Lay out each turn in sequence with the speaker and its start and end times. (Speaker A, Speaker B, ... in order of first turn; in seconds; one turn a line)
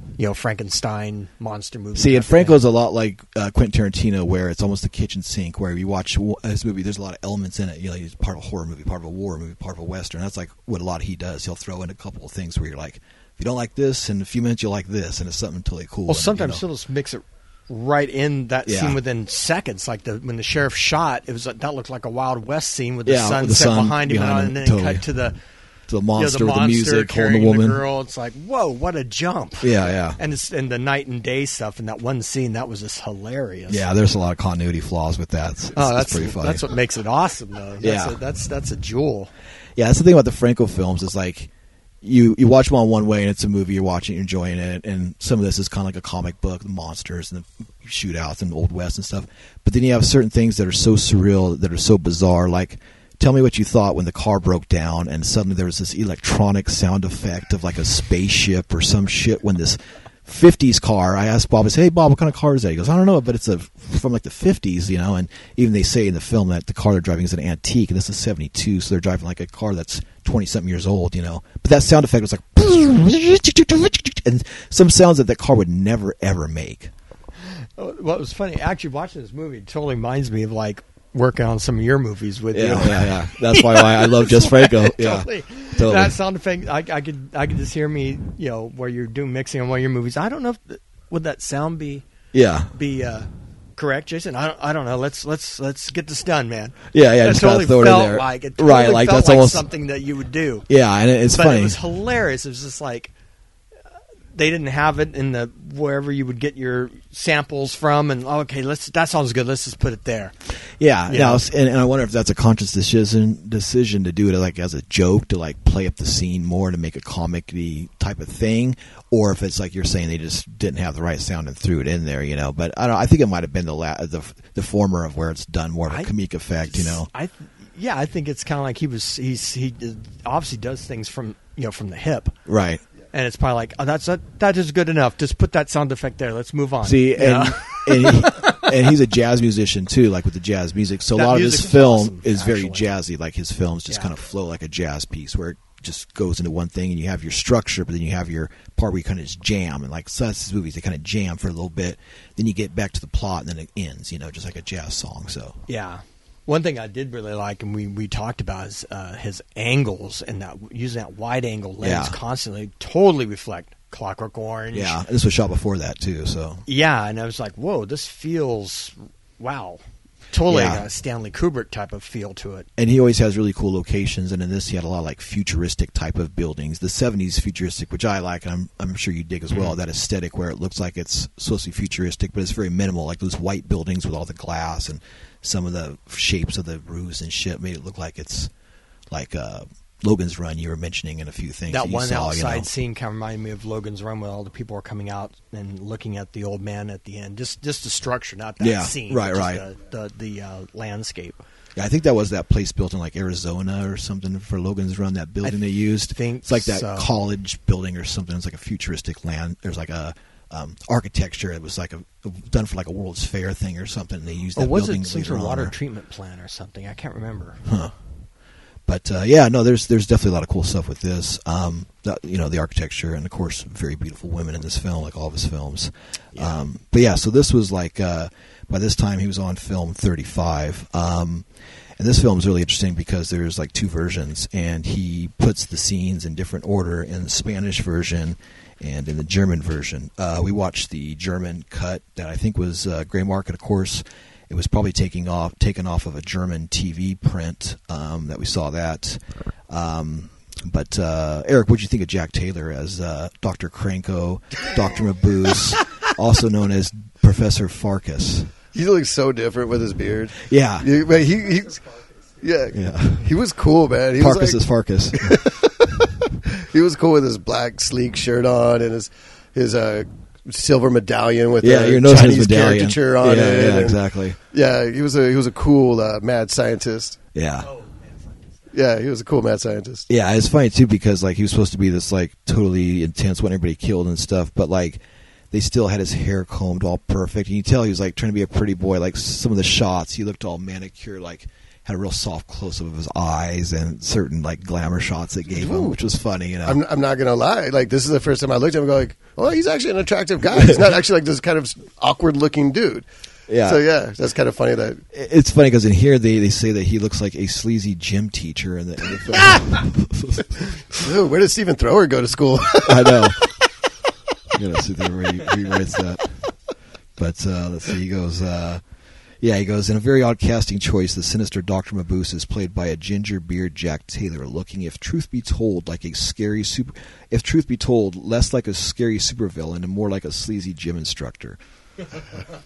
Speaker A: 0.2-2.6
Speaker B: 1.9-16.6
Speaker A: 16.1-25.4
Speaker B: 18.6-19.0
Speaker B: 23.1-25.0
Speaker B: 25.9-27.8
Speaker A: 26.1-33.8
Speaker B: 29.6-30.2
Speaker B: 33.7-36.6
Speaker A: 35.7-39.3
Speaker B: 37.8-38.1
Speaker B: 39.8-41.5
Speaker B: 42.0-76.9
Speaker A: 77.5-92.0
Speaker B: 82.5-86.2
Speaker B: 92.3-92.7
Speaker A: 92.7-100.7
Speaker B: 96.9-99.6
Speaker B: 100.7-101.8
Speaker A: 101.3-103.1
Speaker A: 104.3-110.3
Speaker B: 110.8-127.1
Speaker A: 111.1-111.4
Speaker A: 126.7-132.4
Speaker B: 132.4-132.8
Speaker A: 133.1-138.7
Speaker B: 136.8-155.6
Speaker A: 141.1-142.9
Speaker A: 155.7-165.0
Speaker B: 161.8-162.2
Speaker B: 164.7-166.6
Speaker A: 166.7-172.7
Speaker B: 170.5-170.8
Speaker B: 172.8-188.5
Speaker B: 189.1-192.7
Speaker A: 191.7-201.4
Speaker B: 198.6-199.6
Speaker B: 201.8-215.8
Speaker A: 206.1-207.1
Speaker A: 214.6-217.8
Speaker B: 217.6-218.3
Speaker B: 218.8-258.5
Speaker A: 226.3-226.6
Speaker C: 258.7-261.8
Speaker B: 260.4-260.9
Speaker C: 262.4-264.6
Speaker B: 262.7-263.3
Speaker B: 264.2-265.7
Speaker C: 265.1-265.7
Speaker C: 266.4-277.2
Speaker B: 271.6-274.4
Speaker B: 277.3-277.7
Speaker A: 277.6-278.3
Speaker C: 278.7-280.1
Speaker B: 280.1-296.8
Speaker C: 295.5-296.0
Speaker C: 296.6-303.1
Speaker B: 303.5-303.8
Speaker C: 303.6-305.0
Speaker B: 305.1-311.1
Speaker C: 311.0-313.2
Speaker B: 312.8-313.6
Speaker B: 314.5-316.6
Speaker B: 317.2-318.8
Speaker B: 319.4-331.6